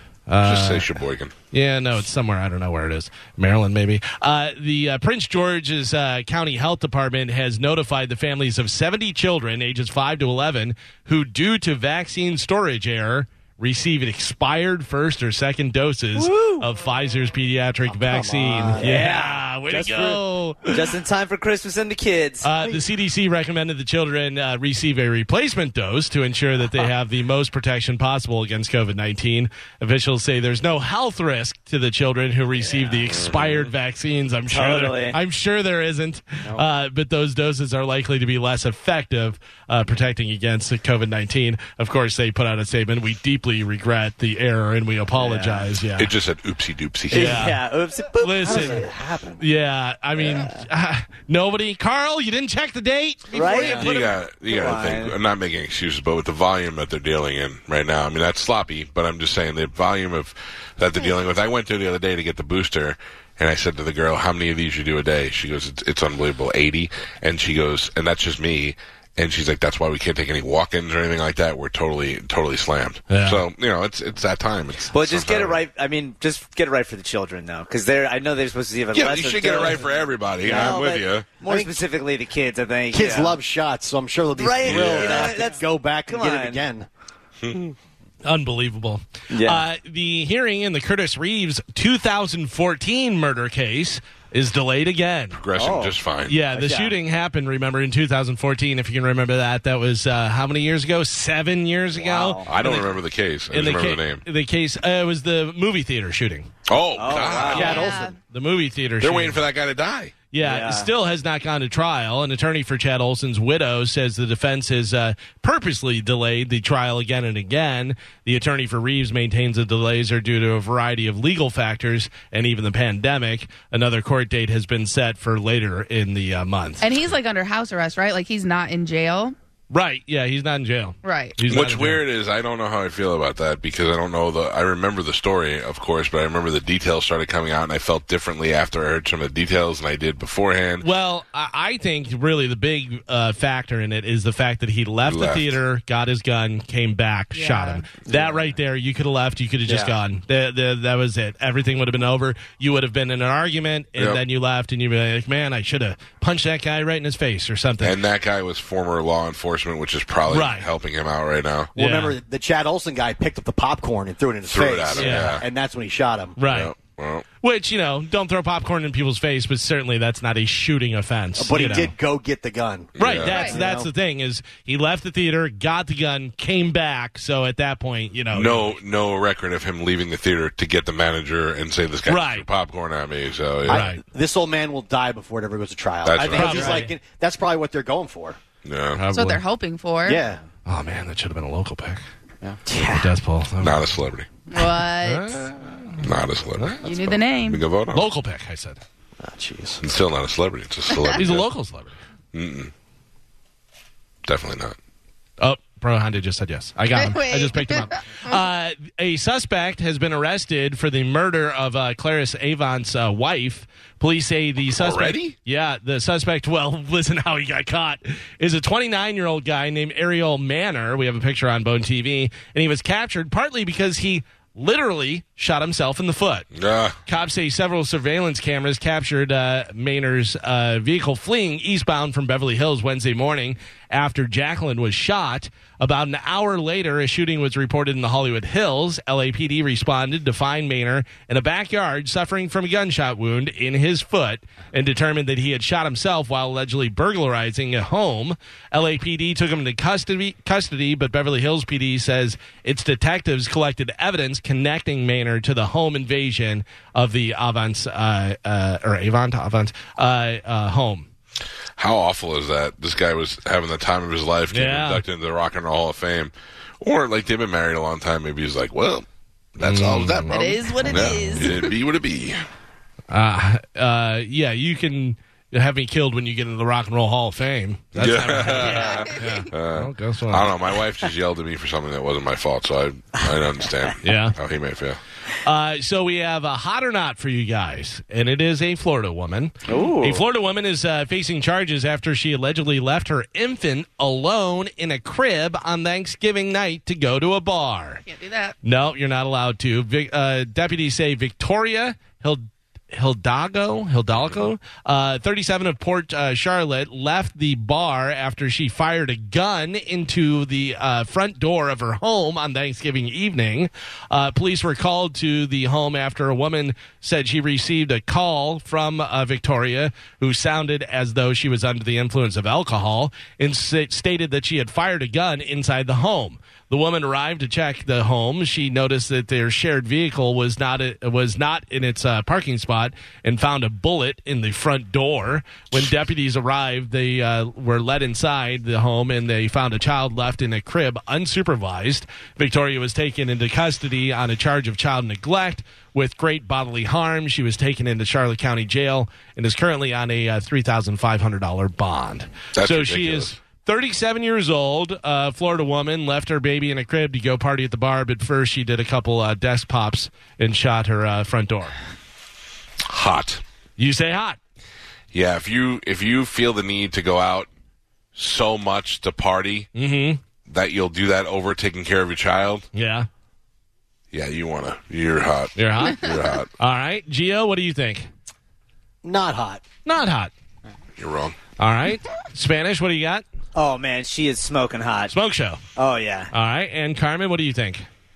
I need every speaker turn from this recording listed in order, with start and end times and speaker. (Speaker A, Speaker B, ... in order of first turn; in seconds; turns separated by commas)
Speaker A: 0.3-0.9, Speaker B: 0.4-1.3, Speaker A: 1.5-20.7, Speaker C: 16.3-16.6, Speaker D: 17.9-19.1, Speaker C: 18.8-22.7, Speaker A: 22.4-46.1, Speaker B: 33.1-33.7, Speaker C: 34.5-35.2, Speaker C: 45.1-45.7, Speaker B: 46.0-47.5, Speaker A: 47.1-47.6, Speaker C: 47.1-49.1, Speaker A: 48.2-54.1, Speaker D: 48.4-49.4, Speaker C: 53.3-55.1, Speaker B: 53.6-75.6, Speaker A: 73.1-73.4, Speaker C: 74.9-79.9, Speaker B: 78.9-81.4, Speaker C: 80.4-83.4, Speaker D: 80.5-80.8, Speaker D: 81.4-81.8, Speaker D: 82.9-86.9, Speaker C: 84.3-86.6, Speaker B: 84.6-85.3, Speaker B: 87.4-87.7, Speaker A: 88.3-95.4, Speaker C: 89.3-89.7, Speaker B: 95.3-96.4, Speaker C: 95.6-96.0, Speaker A: 96.3-103.0, Speaker C: 96.5-97.0, Speaker C: 102.0-102.5, Speaker B: 102.4-104.2, Speaker A: 103.5-106.5, Speaker B: 106.7-107.8, Speaker C: 107.0-107.9, Speaker A: 107.3-109.4, Speaker D: 107.6-108.1, Speaker E: 107.6-108.2, Speaker B: 109.0-110.2, Speaker A: 110.3-126.8, Speaker C: 110.4-110.9, Speaker E: 126.8-129.3, Speaker A: 129.7-132.0, Speaker E: 131.0-131.4, Speaker B: 131.5-140.9, Speaker A: 140.8-158.0, Speaker B: 145.0-145.6, Speaker E: 147.3-147.9, Speaker D: 149.7-150.0, Speaker B: 154.0-154.2, Speaker B: 157.8-161.8, Speaker A: 160.3-160.7, Speaker A: 161.8-162.2, Speaker D: 161.8-166.4, Speaker B: 164.5-165.5, Speaker A: 164.9-165.4, Speaker A: 166.4-166.7, Speaker B: 166.4-167.2, Speaker A: 167.4-171.9, Speaker D: 171.4-173.9, Speaker B: 173.0-173.5, Speaker A: 173.0-178.8, Speaker E: 173.2-173.6, Speaker B: 178.3-183.9, Speaker A: 182.1-182.5, Speaker A: 183.7-184.0, Speaker D: 183.7-188.4, Speaker B: 186.0-186.8, Speaker A: 186.3-186.9, Speaker B: 188.6-189.1, Speaker A: 189.0-189.4, Speaker E: 189.1-190.2, Speaker D: 190.1-190.4, Speaker A: 190.7-192.0, Speaker C: 192.7-193.1, Speaker A: 192.9-194.0, Speaker B: 193.6-194.3, Speaker E: 194.5-195.5, Speaker A: 195.0-196.9, Speaker B: 196.0-198.1, Speaker E: 196.8-197.7, Speaker A: 197.9-198.8, Speaker D: 199.2-199.8, Speaker B: 199.8-201.5, Speaker A: 201.2-201.9, Speaker B: 202.3-202.7, Speaker B: 204.3-204.8, Speaker A: 205.4-226.5, Speaker E: 206.9-208.4, Speaker B: 214.7-215.4, Speaker B: 226.5-227.0, Speaker A: 227.1-261.1, Speaker B: 261.8-269.1, Speaker A: 264.5-265.0, Speaker B: 269.6-272.4, Speaker A: 269.6-271.4, Speaker E: 270.3-271.7, Speaker A: 273.1-280.5, Speaker B: 277.9-285.0, Speaker E: 278.6-279.5, Speaker A: 284.0-284.4, Speaker A: 285.4-298.0, Speaker C: 289.7-290.2, Speaker E: 298.1-298.6, Speaker A: 298.6-361.8, Speaker B: 352.6-353.4, Speaker B: 362.9-363.4, Speaker A: 363.8-364.4, Speaker B: 365.1-367.5, Speaker B: 368.1-369.7, Speaker A: 369.8-370.2, Speaker B: 370.5-372.7, Speaker A: 372.7-373.1, Speaker B: 374.1-376.5, Speaker A: 375.6-376.0, Speaker A: 376.6-378.1, Speaker D: 379.0-379.6, Speaker A: 379.9-380.3, Speaker B: 381.0-381.4, Speaker A: 381.6-383.2, Speaker C: 383.6-385.1, Speaker A: 385.1-385.6, Speaker C: 385.8-386.3, Speaker A: 386.3-387.9